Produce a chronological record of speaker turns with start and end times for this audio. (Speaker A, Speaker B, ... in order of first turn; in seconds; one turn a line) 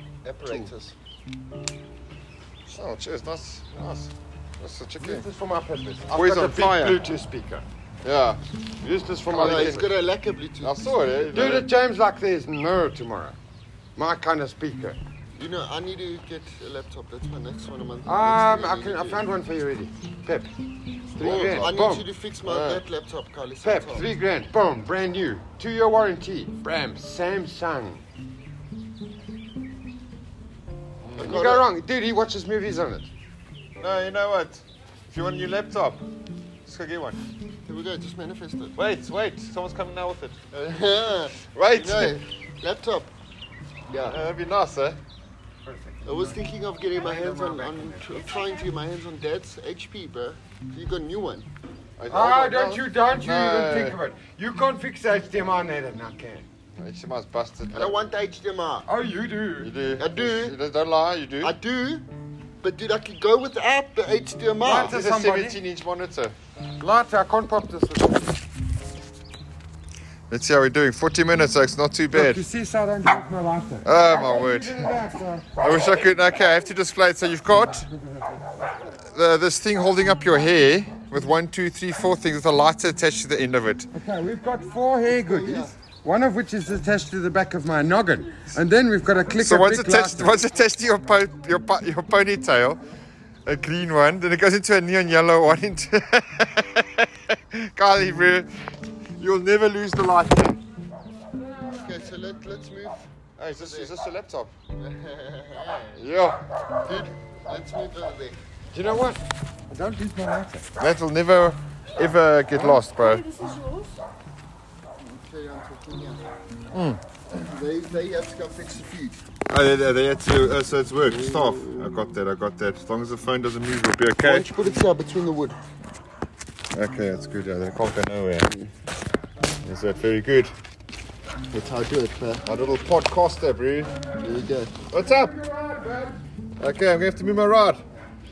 Speaker A: 0.2-0.9
Speaker B: 0.4-0.7
Speaker B: 2.7-5.3
Speaker C: 5.0-7.7
Speaker B: 6.1-7.0
Speaker B: 8.0-8.4
Speaker C: 8.8-9.9
Speaker B: 9.3-9.8
Speaker A: 9.3-11.3
Speaker B: 10.6-11.7
Speaker C: 11.3-13.4
Speaker C: 14.0-15.0
Speaker A: 15.4-19.3
Speaker C: 18.1-20.5
Speaker C: 21.1-22.1
Speaker B: 21.1-21.7
Speaker A: 21.2-24.1
Speaker B: 22.4-22.8
Speaker C: 23.6-28.0
Speaker B: 31.0-31.3
Speaker A: 31.2-31.7
Speaker C: 31.2-33.1
Speaker B: 33.8-36.0
Speaker B: 36.7-37.2
Speaker A: 37.7-38.8
Speaker B: 38.8-40.4
Speaker A: 40.5-43.1
Speaker B: 41.5-42.2
Speaker A: 43.9-44.3
Speaker B: 44.0-45.0
Speaker C: 45.6-46.4
Speaker A: 46.0-51.5
Speaker C: 47.0-48.1
Speaker D: 48.1-48.7
Speaker B: 52.0-54.0
Speaker C: 52.1-56.5
Speaker B: 56.8-58.0
Speaker A: 57.7-58.9
Speaker C: 58.9-59.7
Speaker B: 59.6-61.5
Speaker A: 60.0-60.6
Speaker A: 61.4-62.1
Speaker A: 62.6-65.0
Speaker C: 64.6-65.6
Speaker B: 64.7-66.3
Speaker C: 66.8-68.4
Speaker B: 70.3-72.5
Speaker C: 72.1-75.6
Speaker B: 73.8-74.9
Speaker B: 75.6-77.9
Speaker B: 79.1-83.9
Speaker C: 84.0-90.3
Speaker A: 85.2-85.7
Speaker B: 89.4-92.8
Speaker B: 93.5-98.5
Speaker B: 99.2-100.6
Speaker A: 101.5-103.9
Speaker B: 103.4-104.5
Speaker A: 104.8-106.0
Speaker B: 106.0-106.4
Speaker A: 106.8-108.4
Speaker C: 108.7-110.7
Speaker B: 110.8-113.2
Speaker D: 112.5-114.0
Speaker A: 115.0-116.2
Speaker B: 116.7-117.0
Speaker A: 117.3-119.2
Speaker B: 119.5-124.5
Speaker A: 121.1-121.9
Speaker A: 124.2-125.6
Speaker B: 126.7-128.5
Speaker B: 129.6-130.5
Speaker A: 131.5-132.4
Speaker B: 132.5-133.9
Speaker A: 134.2-134.8
Speaker B: 134.9-135.4
Speaker C: 135.0-136.2
Speaker B: 136.6-137.8